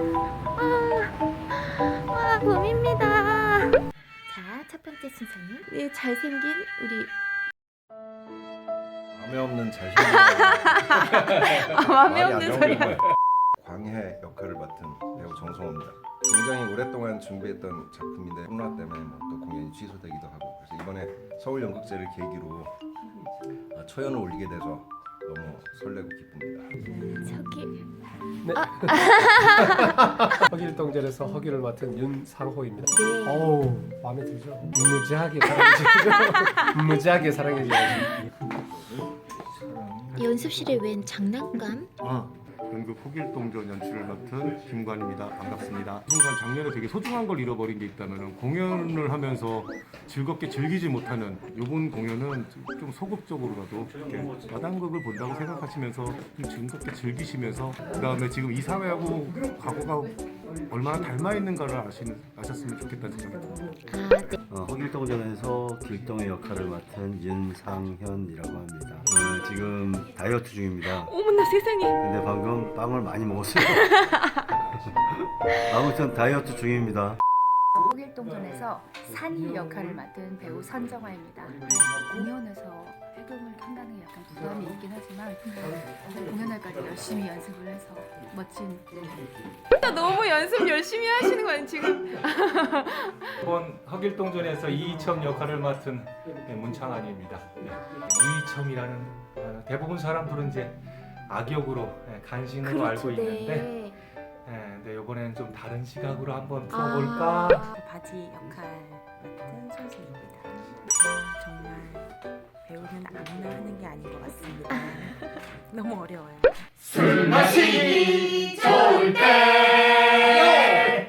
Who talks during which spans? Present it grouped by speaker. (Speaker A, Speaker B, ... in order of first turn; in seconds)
Speaker A: 0.6-3.8, 5.7-7.1, 10.0-13.0, 27.2-27.7, 28.9-29.6, 33.1-33.4, 71.0-72.0, 89.7-93.3, 102.6-103.9, 106.7-107.7, 117.0-120.9
Speaker B: 4.2-5.7, 40.1-41.9, 63.9-64.4
Speaker C: 9.1-11.1, 12.0-22.7, 23.7-26.7
Speaker D: 28.4-38.1
Speaker E: 39.0-40.3, 93.4-103.8, 104.4-107.7
Speaker F: 42.0-60.2, 60.7-63.7
Speaker G: 64.5-71.2, 72.0-77.2
Speaker H: 77.7-89.0
Speaker I: 107.7-112.1, 112.6-117.4